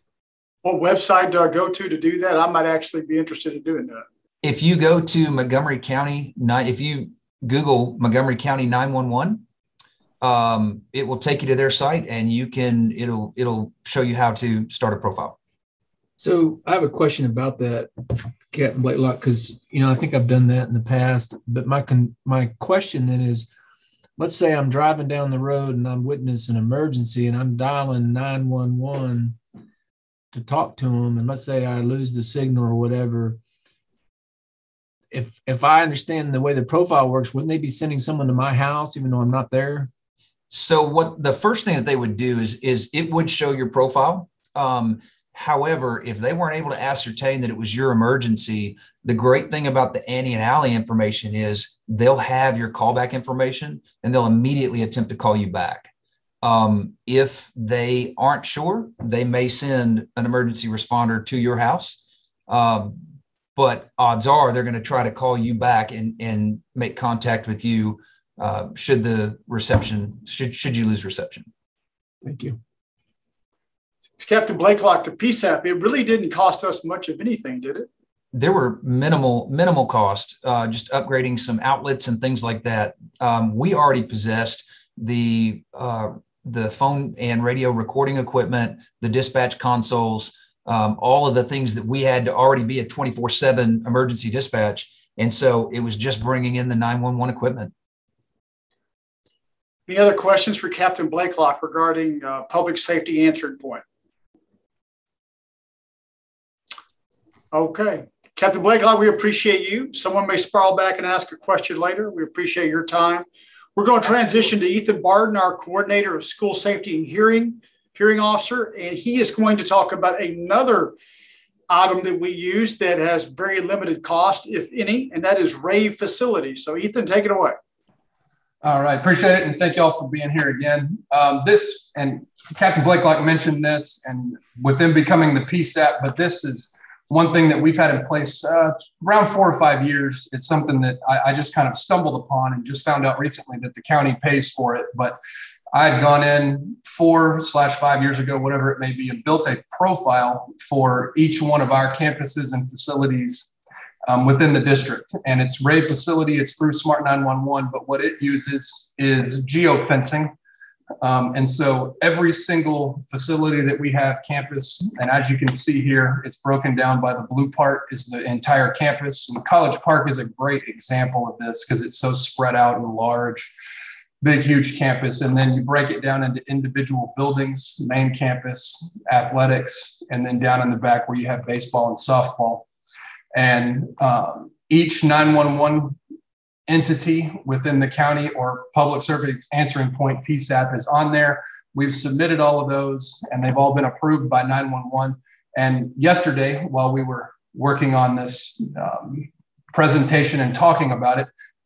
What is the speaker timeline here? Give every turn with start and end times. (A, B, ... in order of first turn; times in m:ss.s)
0:00.6-0:04.0 A
0:04.4-0:09.4 B
0:10.2-0:15.4 B
0:16.2-0:17.9 C
0:18.5-0:23.5 C
0:24.2-0:29.4 C
0:30.3-0:33.4 C
0:35.1-0:39.9 C
0:40.5-0:55.9 B
0:56.4-1:03.0 B
1:03.6-1:11.5 B
1:12.2-1:12.6 C
1:14.2-1:17.9 A
1:18.3-1:37.7 B
1:39.9-1:43.8 A
1:47.5-2:00.9 A
2:01.7-2:07.6 A
2:08.6-2:25.2 D
2:25.7-2:33.5 D
2:34.1-2:40.3 D
2:41.0-2:53.5 D
2:54.2-3:02.6 D
3:03.3-3:06.0 D
3:06.7-3:21.3 D